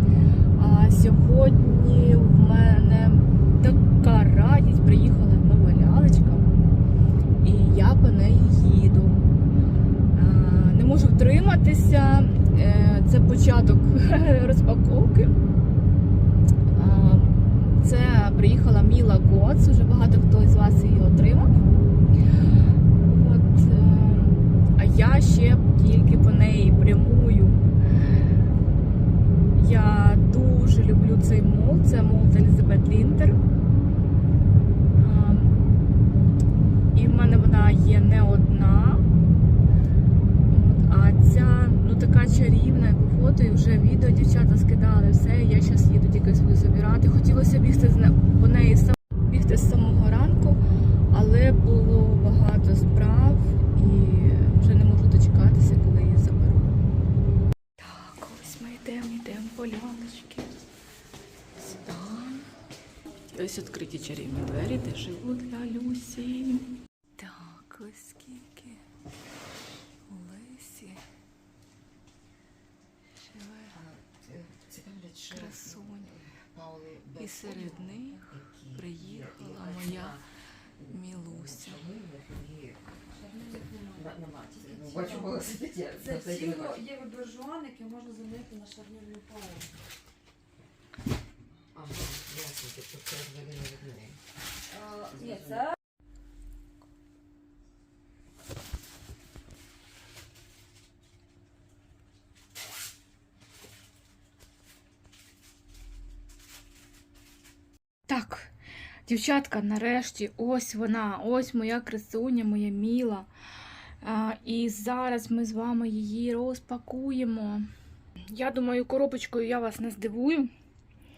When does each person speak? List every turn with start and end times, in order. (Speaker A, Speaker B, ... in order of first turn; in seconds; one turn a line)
Speaker A: 0.6-6.5
Speaker A: 7.4-9.3
Speaker A: 10.1-15.4
Speaker A: 16.7-21.6
Speaker A: 23.0-27.6
Speaker A: 29.6-33.4
Speaker A: 35.0-35.5
Speaker A: 36.9-39.1
Speaker A: 40.5-56.7
Speaker A: 57.8-60.5
Speaker A: 61.6-62.5
Speaker A: 63.3-68.8
Speaker A: 70.1-71.0
Speaker A: 73.2-73.8
Speaker B: 73.7-80.2
Speaker A: 75.3-76.2
Speaker A: 77.2-80.2
Speaker B: 80.8-87.0
Speaker A: 80.9-81.9
Speaker C: 83.2-84.0
Speaker C: 84.5-85.4
Speaker C: 86.0-89.7
Speaker B: 91.7-94.2
Speaker C: 94.9-95.7
Speaker B: 95.0-95.7
Speaker A: 108.1-108.5
Speaker A: 109.1-113.3
Speaker A: 114.0-117.7
Speaker A: 118.3-120.5